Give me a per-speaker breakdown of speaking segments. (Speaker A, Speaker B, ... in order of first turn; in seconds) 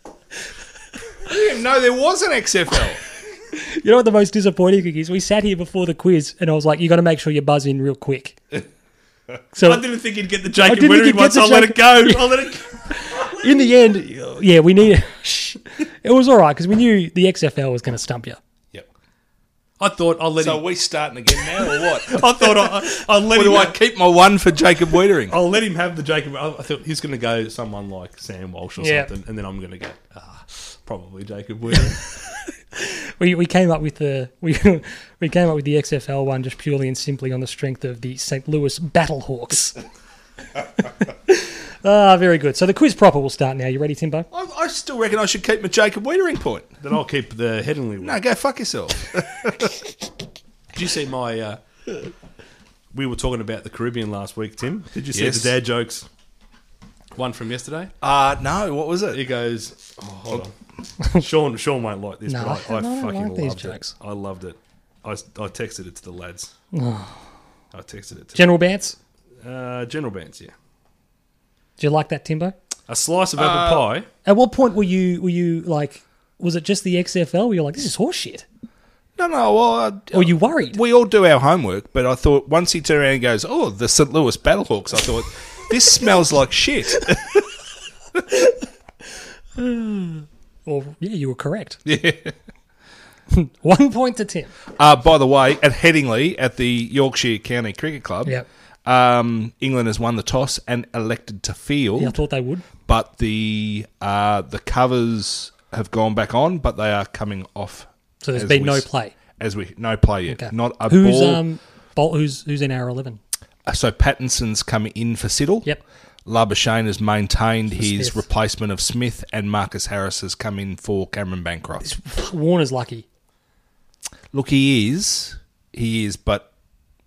Speaker A: 1.2-3.0, 20.4-25.4, 44.3-46.7, 48.0-49.7, 55.1-55.6, 58.0-59.2, 73.4-73.9, 79.2-87.4, 91.8-92.3, 94.7-98.3, 98.8-102.2, 102.8-108.8, 109.4-111.4, 113.7-115.7, 116.2-121.9, 124.3-126.5
Speaker B: 3.5-8.4, 9.5-9.8, 10.6-18.4, 28.8-29.1, 32.3-39.8, 41.0-44.3, 62.3-63.9, 66.7-67.2, 68.3-69.0, 71.8-72.5, 74.2-78.4, 80.1-80.8, 89.5-91.8, 93.3-94.5, 102.0-102.7, 108.2-109.1, 110.3-113.2, 117.8-118.2, 121.8-123.0
Speaker C: 9.6-13.4, 19.8-20.6, 21.4-23.8, 25.3-32.1, 46.8-48.2, 50.7-51.6, 52.9-56.1, 57.1-57.9, 59.1-66.5, 67.7-68.5, 69.4-70.5, 72.9-74.1